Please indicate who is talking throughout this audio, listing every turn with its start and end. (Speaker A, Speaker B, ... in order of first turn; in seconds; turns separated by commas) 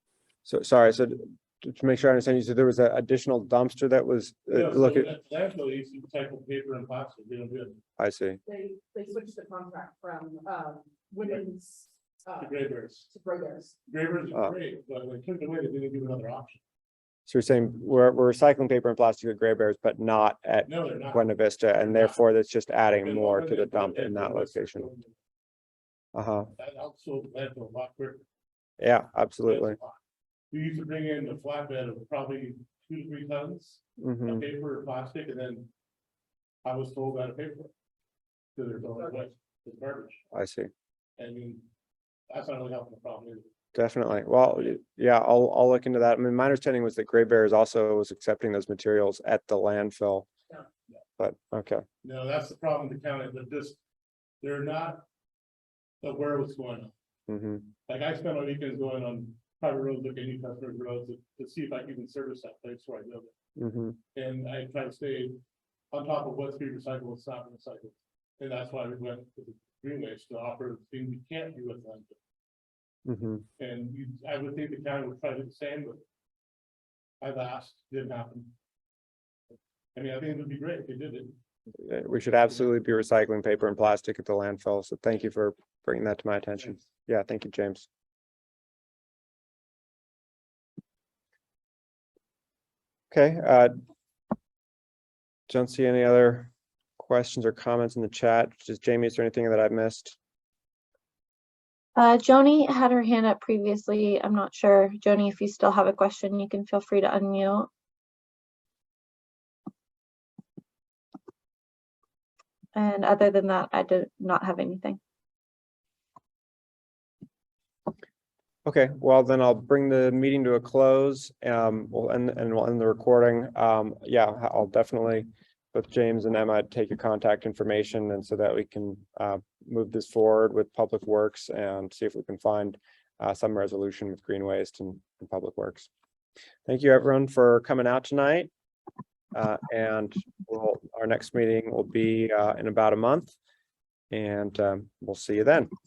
Speaker A: 0.4-5.1, Speaker B: 4.5-7.8, Speaker A: 8.0-8.4, Speaker C: 8.4-12.5, Speaker B: 12.4-13.1, Speaker C: 13.1-13.8, Speaker B: 13.9-16.6, Speaker A: 17.3-24.9, Speaker B: 20.6-22.2, Speaker B: 23.0-25.1, Speaker A: 26.1-26.5, Speaker B: 26.6-28.2, Speaker A: 28.8-29.8, Speaker B: 29.4-30.0, Speaker B: 30.5-35.7, Speaker A: 34.0-34.4, Speaker B: 36.6-37.7, Speaker B: 38.5-40.2, Speaker A: 40.3-40.7, Speaker B: 41.2-41.6, Speaker B: 42.3-43.5, Speaker A: 43.7-50.3, Speaker A: 51.2-51.8, Speaker B: 52.0-53.8, Speaker B: 54.4-55.0, Speaker B: 56.0-56.9, Speaker A: 57.3-57.7, Speaker B: 57.9-63.3, Speaker A: 63.6-64.0, Speaker B: 64.1-65.4, Speaker B: 65.9-72.2, Speaker A: 73.0-73.4, Speaker B: 73.6-76.0, Speaker B: 77.2-78.5, Speaker B: 79.9-81.3, Speaker A: 81.8-87.9, Speaker A: 93.1-93.7, Speaker A: 95.5-100.2, Speaker D: 102.0-107.7, Speaker D: 112.7-115.0, Speaker A: 118.6-135.9, Speaker A: 136.7-138.5, Speaker A: 139.3-143.3, Speaker A: 144.1-145.7